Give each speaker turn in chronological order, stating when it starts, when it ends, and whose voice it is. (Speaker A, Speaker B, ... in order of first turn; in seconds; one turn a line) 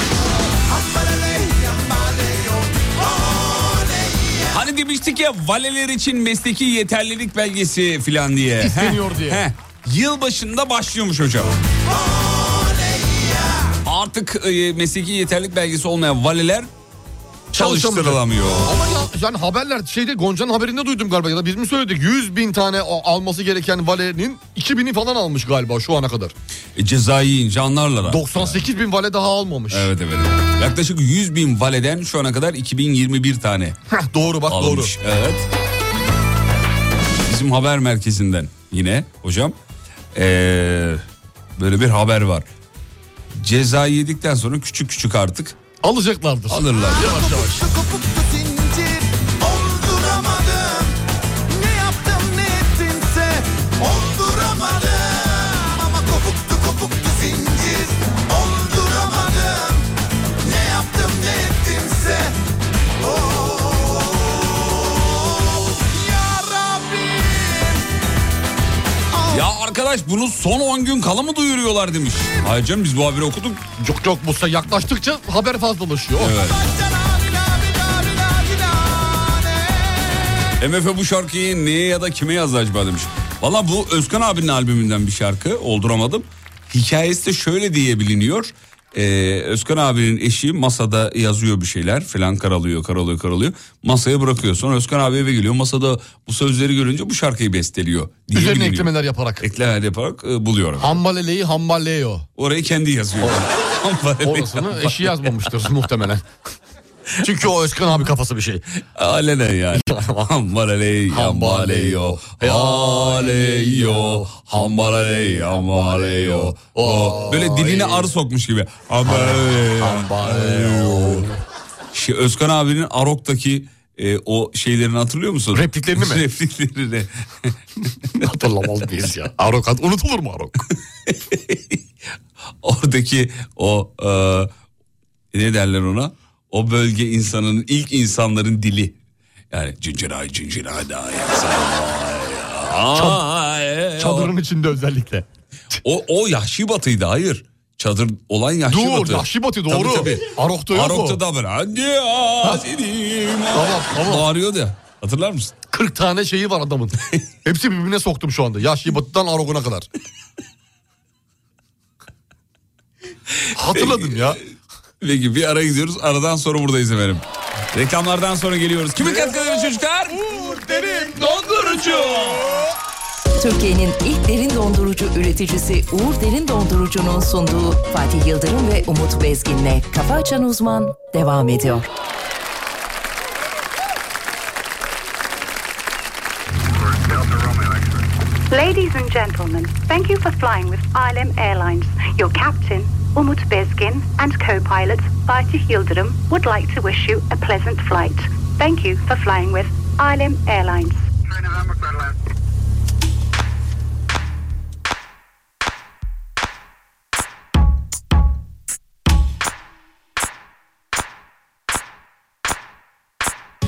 Speaker A: 0.6-4.5
Speaker B: 4.5-11.5
Speaker C: 8.6-9.4
Speaker A: 11.9-13.7
Speaker B: 13.8-16.7
Speaker C: 17.5-26.3
Speaker B: 17.5-18.8
Speaker B: 26.8-28.6
Speaker C: 28.1-29.9
Speaker B: 29.7-33.8
Speaker C: 33.9-34.9
Speaker B: 34.5-35.5
Speaker B: 37.2-39.5
Speaker B: 40.1-41.0
Speaker B: 41.6-42.5
Speaker B: 43.3-45.6
Speaker C: 45.8-47.6
Speaker B: 46.5-47.1
Speaker A: 46.9-51.0
Speaker A: 51.5-59.9
Speaker A: 60.4-62.4
Speaker A: 63.0-67.8
Speaker A: 69.1-69.4
Speaker B: 69.3-73.6
Speaker C: 73.8-76.4
Speaker B: 76.2-76.6
Speaker A: 76.5-80.5
Speaker B: 80.6-101.0
Speaker C: 98.3-99.4
Speaker C: 100.8-102.3
Speaker B: 102.4-105.3
Speaker C: 104.2-106.2
Speaker C: 107.2-108.6
Speaker B: 108.9-121.3
Speaker C: 109.7-110.3
Speaker C: 111.1-114.4
Speaker C: 115.5-118.1
Speaker C: 119.0-121.4
Speaker B: 121.9-127.5
Speaker C: 125.5-126.2
Speaker C: 128.1-130.6
Speaker B: 131.1-131.8
Speaker B: 132.6-134.5
Speaker B: 135.3-138.9
Speaker B: 139.5-144.3
Speaker C: 142.9-143.2
Speaker C: 144.0-145.2
Speaker B: 145.8-155.5
Speaker C: 148.7-151.2
Speaker C: 153.5-154.2
Speaker C: 155.7-159.9
Speaker C: 163.5-164.4
Speaker B: 163.7-164.4
Speaker B: 165.0-170.3
Speaker C: 169.0-169.3
Speaker C: 170.2-172.2
Speaker B: 171.0-172.4
Speaker D: 173.4-181.9
Speaker A: 187.0-187.7
Speaker E: 188.5-201.0
Speaker A: 201.3-202.0